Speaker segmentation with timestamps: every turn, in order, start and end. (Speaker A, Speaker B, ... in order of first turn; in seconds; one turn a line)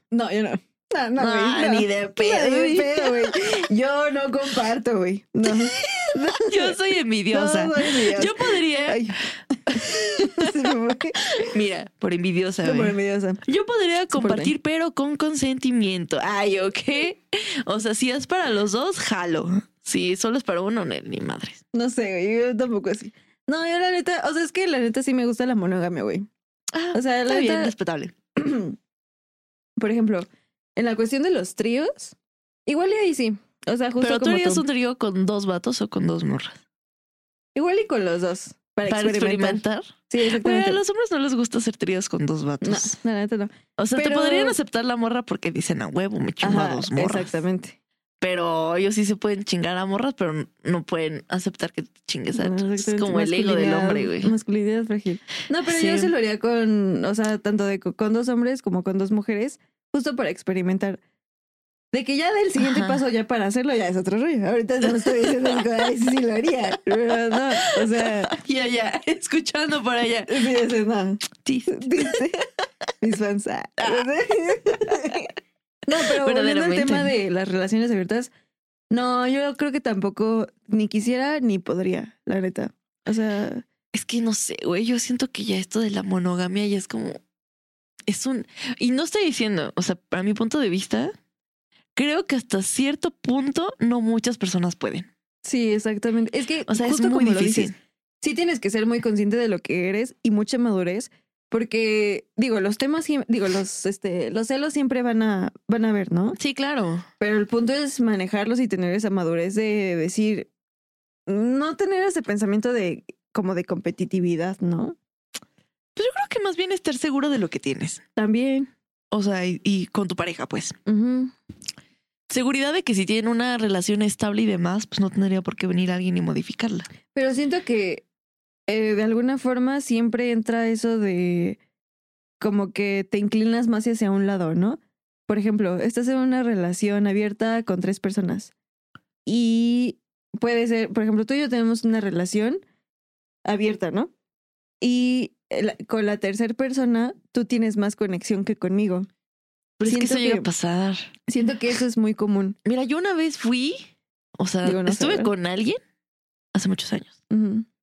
Speaker A: 0.1-6.8
Speaker B: 1.2-3.3
Speaker B: 5.8-9.0
Speaker A: 7.3-11.4
Speaker B: 9.7-10.4
Speaker B: 11.3-21.6
Speaker A: 12.6-13.4
Speaker A: 14.1-14.5
Speaker A: 21.7-26.3
Speaker B: 26.7-28.1
Speaker A: 26.9-27.7
Speaker A: 28.4-28.8
Speaker A: 29.8-34.6
Speaker B: 34.0-36.6
Speaker A: 37.5-40.8
Speaker B: 38.9-43.0
Speaker A: 42.6-44.5
Speaker B: 43.8-47.3
Speaker A: 46.4-47.8
Speaker B: 48.2-54.3
Speaker A: 52.3-61.0
Speaker B: 55.6-56.1
Speaker A: 61.9-68.3
Speaker B: 62.6-63.0
Speaker B: 68.0-70.5
Speaker A: 70.3-72.5
Speaker B: 71.4-72.2
Speaker A: 73.0-75.3
Speaker B: 73.8-74.0
Speaker A: 75.9-78.3
Speaker B: 76.1-77.1
Speaker A: 78.9-83.6
Speaker B: 83.9-87.2
Speaker B: 88.1-91.1
Speaker B: 91.9-95.1
Speaker A: 95.4-106.4
Speaker B: 96.7-97.7
Speaker B: 106.4-107.0
Speaker A: 107.2-110.5
Speaker A: 111.3-115.0
Speaker B: 116.0-118.0
Speaker A: 118.2-118.7
Speaker B: 119.1-120.8
Speaker A: 120.8-121.3
Speaker B: 122.3-126.9
Speaker A: 127.1-128.0
Speaker A: 128.7-131.6
Speaker A: 132.4-138.5
Speaker A: 139.2-142.6
Speaker A: 143.4-144.1
Speaker A: 144.8-149.1
Speaker B: 149.8-151.1
Speaker A: 149.8-150.5
Speaker A: 151.3-152.6
Speaker B: 152.6-153.8
Speaker B: 154.4-155.8
Speaker A: 154.6-155.3
Speaker B: 156.5-157.1
Speaker A: 157.3-157.7